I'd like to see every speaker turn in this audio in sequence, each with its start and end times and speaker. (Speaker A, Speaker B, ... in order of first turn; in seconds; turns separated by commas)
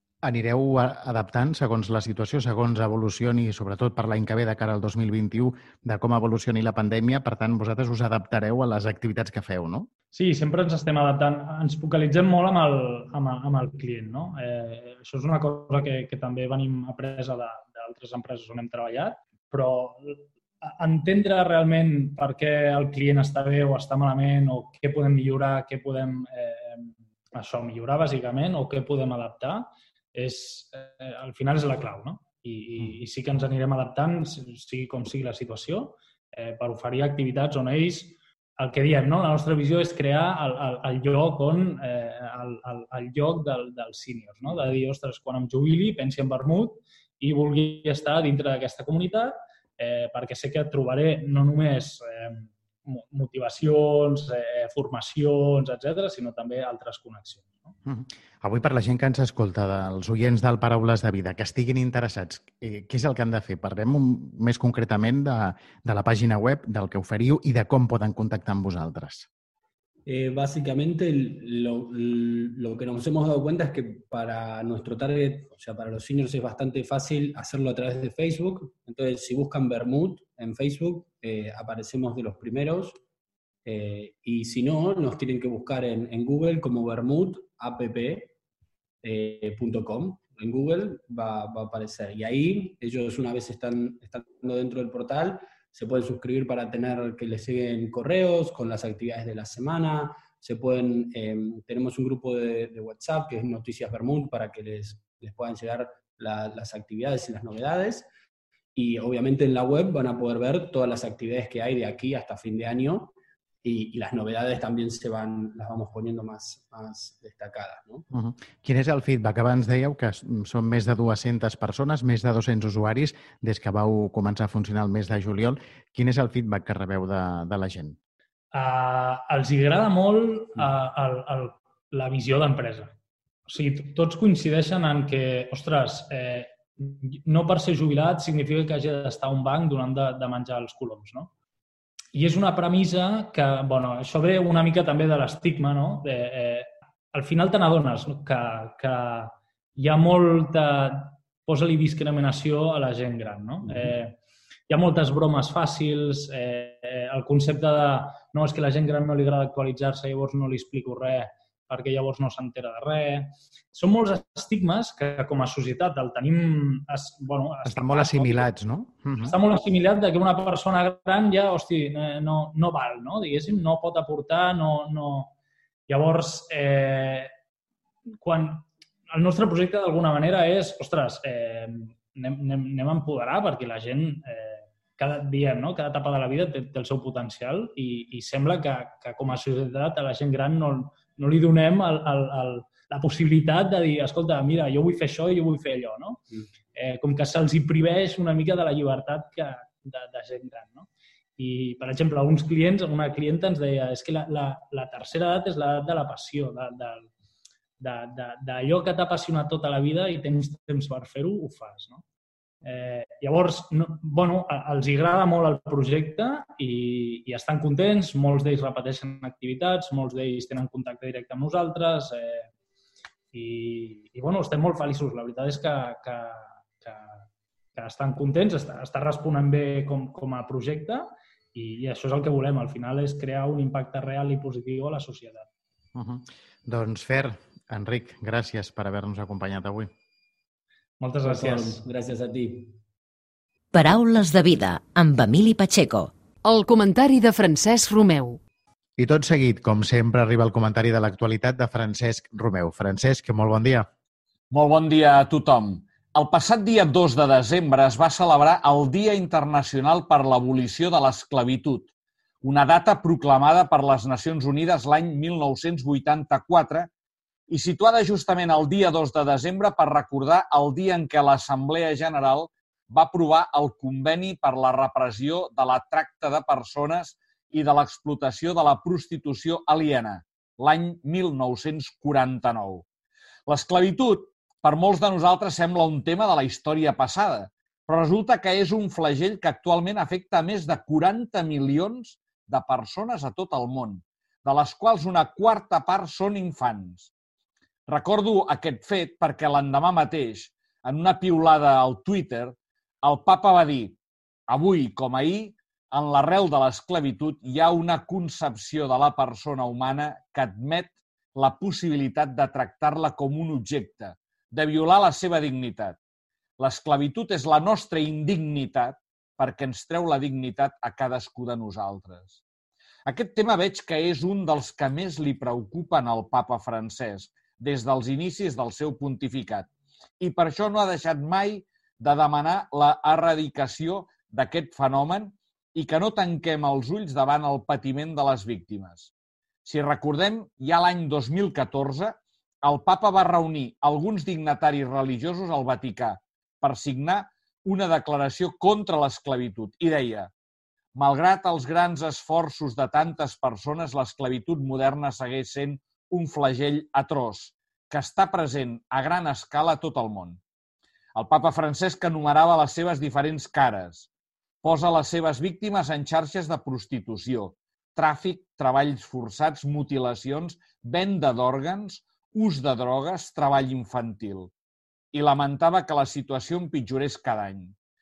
Speaker A: 0.2-9.9, Speaker B: 10.1-57.7, Speaker A: 57.9-69.3, Speaker C: 70.0-83.0, Speaker C: 83.6-88.3, Speaker C: 89.0-108.1, Speaker C: 108.7-118.0, Speaker A: 118.1-128.0, Speaker B: 128.5-132.9, Speaker B: 133.5-141.3, Speaker B: 142.1-154.2, Speaker B: 154.7-168.5, Speaker A: 167.6-169.4, Speaker B: 169.2-175.3, Speaker B: 175.9-177.3, Speaker B: 178.2-207.1, Speaker B: 207.8-212.0, Speaker B: 212.6-222.5, Speaker B: 223.3-235.5, Speaker A: 235.9-239.9, Speaker B: 241.0-241.8, Speaker C: 241.2-242.8, Speaker D: 243.7-246.1, Speaker E: 246.4-248.4, Speaker A: 249.0-253.9, Speaker F: 254.5-261.9, Speaker F: 262.4-266.9, Speaker F: 267.5-282.8, Speaker F: 283.5-297.1, Speaker F: 297.9-303.9, Speaker F: 304.5-316.0, Speaker F: 316.6-322.4, Speaker F: 323.1-329.7, Speaker F: 330.2-339.1, Speaker F: 339.6-350.3, Speaker F: 350.9-360.4, Speaker F: 361.1-364.1, Speaker F: 364.6-374.5, Speaker F: 375.1-377.7